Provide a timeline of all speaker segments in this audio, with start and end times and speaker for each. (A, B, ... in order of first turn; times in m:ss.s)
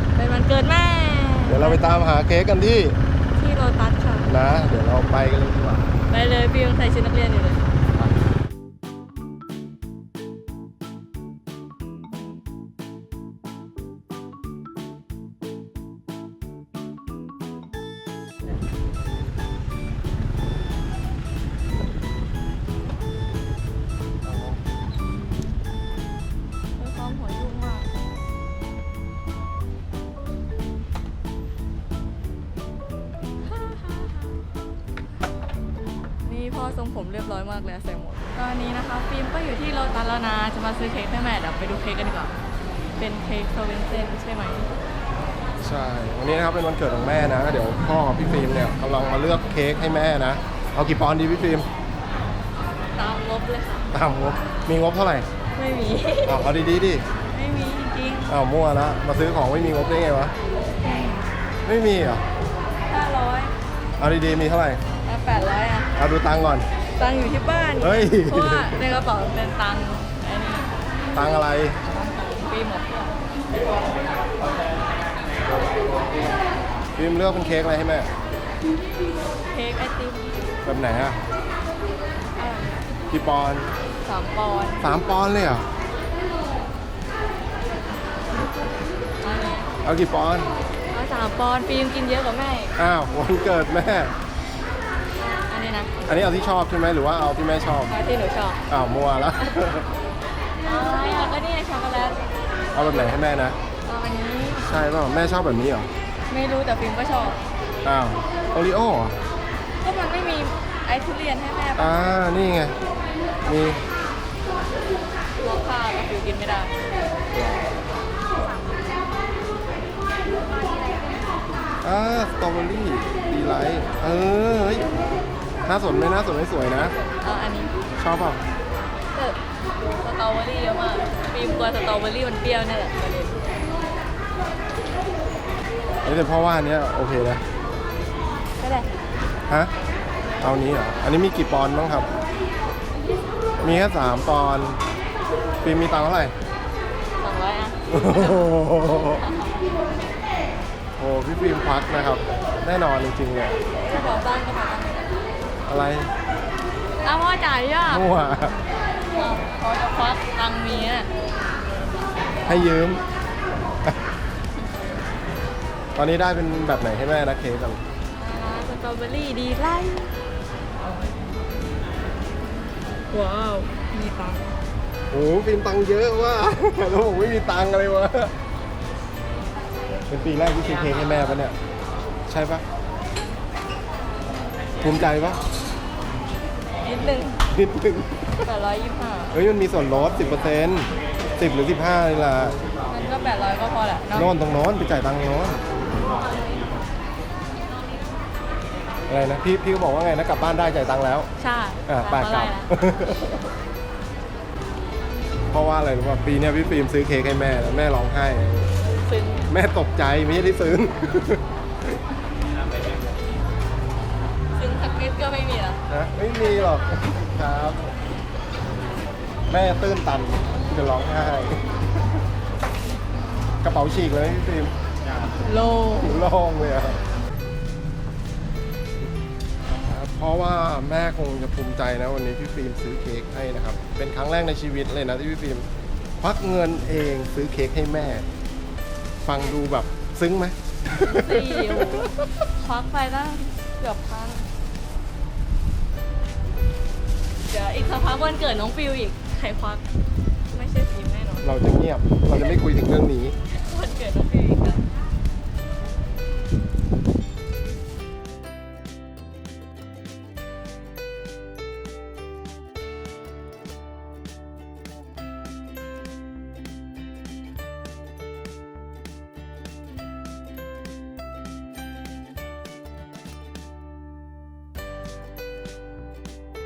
0:00.1-0:01.8 A
0:01.4-0:03.0 B
0:03.3-0:04.3 A
0:04.3-0:05.9 B
0:06.1-0:07.8 A
0:26.8-0:27.9 A
0:33.4-0:34.4 A
0:36.2-0:42.3 A
0:43.0-0:44.8 A
0:45.6-0:51.7 B
0:52.9-0:53.9 A
0:53.9-0:55.3 B
0:55.6-0:56.4 A
0:56.2-0:57.0 B
0:57.3-0:58.3 A
0:58.3-1:00.3 B
1:00.8-1:01.3 A
1:01.6-1:02.2 B
1:02.9-1:03.5 A
1:04.0-1:04.8 B
1:05.0-1:05.9 A
1:06.0-1:06.7 B
1:07.0-1:10.7 A
1:07.8-1:08.8 B
1:11.1-1:11.8 B
1:11.9-1:13.8 A
1:16.9-1:18.1 B
1:19.5-1:20.5 A
1:20.6-1:21.2 B
1:22.4-1:23.0 A
1:23.1-1:23.7 B
1:24.0-1:24.8 A
1:24.8-1:25.7 B
1:29.2-1:29.6 A
1:29.8-1:30.5 B
1:30.9-1:32.8 A
1:32.8-1:34.1 B
1:35.2-1:36.0 A
1:36.0-1:37.9 B
1:37.9-1:38.6 A
1:38.7-1:39.9 B
1:40.6-1:42.2 A
1:42.7-1:43.6 B
1:43.8-1:44.7 A
1:44.6-1:45.9 B
1:46.3-1:47.4 A
1:47.8-1:49.2 B
1:49.8-1:52.1 A
1:51.8-1:52.8 B
1:53.4-1:53.8 B
1:55.4-1:56.8 A
1:57.3-1:57.7 B
2:01.8-2:04.9 B
2:05.6-2:06.9 B
2:06.8-2:07.7 A
2:08.0-2:08.4 B
2:09.1-2:13.5 A
2:16.0-2:17.4 B
2:18.6-2:18.9 A
2:20.4-2:22.1 B
2:23.6-2:24.8 B
2:25.6-2:26.3 B
2:27.2-2:29.5 A
2:27.9-2:29.2 B
2:31.0-2:33.6 B
2:33.7-2:35.2 A
2:35.6-2:36.1 B
2:37.0-2:38.0 A
2:37.9-2:38.6 B
2:39.1-2:41.1 A
2:42.4-2:43.0 B
2:45.9-2:47.8 B
2:48.1-2:50.2 A
2:50.8-2:51.7 A
2:53.0-2:54.6 A
2:55.1-2:58.3 B
3:00.1-3:01.5 B
3:02.3-3:02.6 B
3:04.8-3:05.4 B
3:06.8-3:07.4 A
3:07.5-3:08.4 B
3:08.4-3:09.4 A
3:09.3-3:12.6 B
3:12.9-3:14.3 A
3:14.1-3:15.6 B
3:19.1-3:21.3 B
3:21.4-3:22.7 A
3:21.9-3:23.4 B
3:25.5-3:28.7 B
3:28.9-3:29.5 A
3:29.5-3:31.4 B
3:34.5-3:35.8 A
3:35.9-3:37.9 B
3:39.5-3:41.7 B
3:43.6-3:44.7 B
3:45.4-3:46.3 A
3:46.0-3:47.0 B
3:49.6-3:55.7 B
3:56.2-3:58.2 B
3:59.2-4:02.1 B
4:01.0-4:04.4 A
4:07.5-4:09.9 A
4:10.5-4:11.5 A
4:11.4-4:13.4 B
4:12.3-4:12.6 A
4:13.5-4:14.9 A